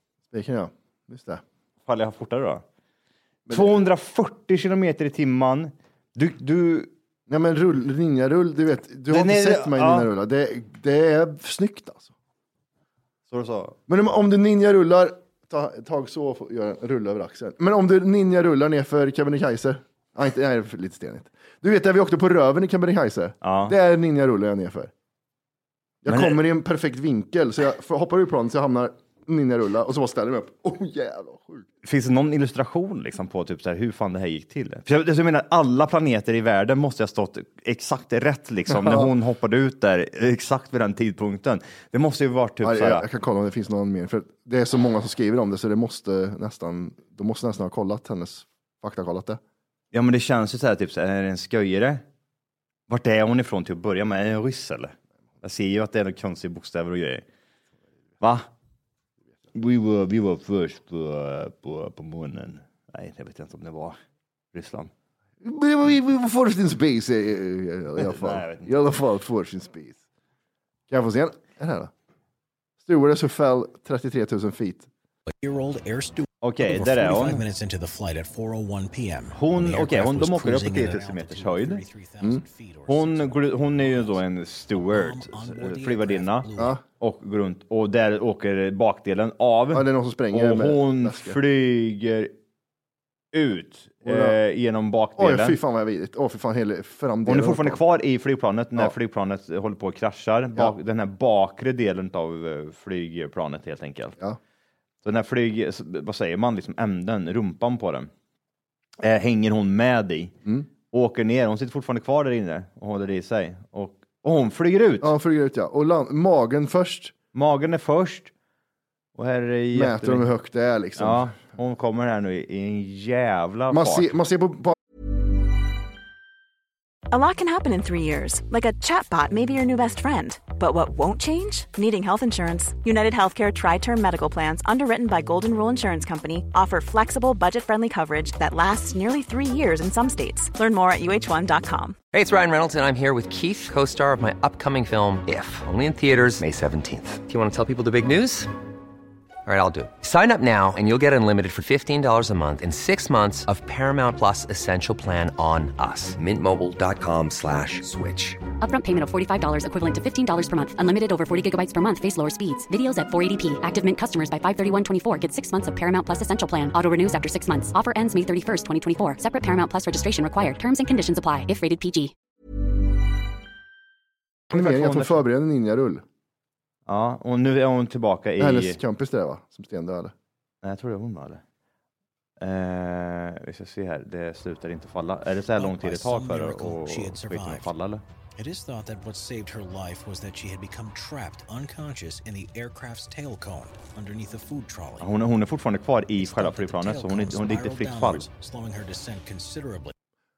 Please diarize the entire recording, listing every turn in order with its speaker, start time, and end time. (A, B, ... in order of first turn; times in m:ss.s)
0:00.3-0:01.4 A
0:01.8-0:02.6 B
0:03.5-0:03.8 A
0:03.5-0:06.9 B
0:07.3-0:12.1 A
0:09.1-0:10.1 B
0:13.3-0:13.8 B
0:13.9-0:24.9 A
0:23.4-0:23.8 B
0:26.0-0:31.6 A
0:26.1-0:26.4 B
0:31.8-0:43.0 B
0:38.7-0:39.1 A
0:42.6-0:49.4 A
0:49.9-0:52.0 B
0:52.9-0:57.2 B
0:58.2-0:58.4 B
0:59.5-1:04.0 B
1:04.5-1:04.9 B
1:05.4-1:10.0 A
1:08.0-1:08.7 B
1:10.9-1:11.9 A
1:12.8-1:14.9 A
1:15.3-1:26.8 C
1:16.4-1:17.4 B
1:19.3-1:21.8 B
1:22.9-1:32.3 B
1:29.7-1:31.4 A
1:33.3-1:35.6 B
1:34.0-1:34.4 A
1:35.2-1:37.8 A
1:37.2-1:44.2 B
1:45.0-1:48.1 B
1:49.0-1:50.4 B
1:50.9-1:55.1 B
1:55.0-1:57.1 A
1:57.3-1:58.3 B
1:59.2-2:00.3 B
1:59.7-2:01.3 A
2:01.0-2:04.1 B
2:03.7-2:04.8 A
2:07.1-2:22.0 D
2:22.1-2:28.5 E
2:29.4-2:38.4 E
2:38.6-2:52.1 F
2:54.5-2:56.0 A
2:54.5-2:55.2 B
2:56.9-2:58.8 B
2:58.4-3:00.1 A
3:00.6-3:01.4 B
3:02.4-3:08.0 B
3:05.6-3:07.7 C
3:08.4-3:15.1 C
3:15.0-3:18.2 B
3:16.2-3:19.9 C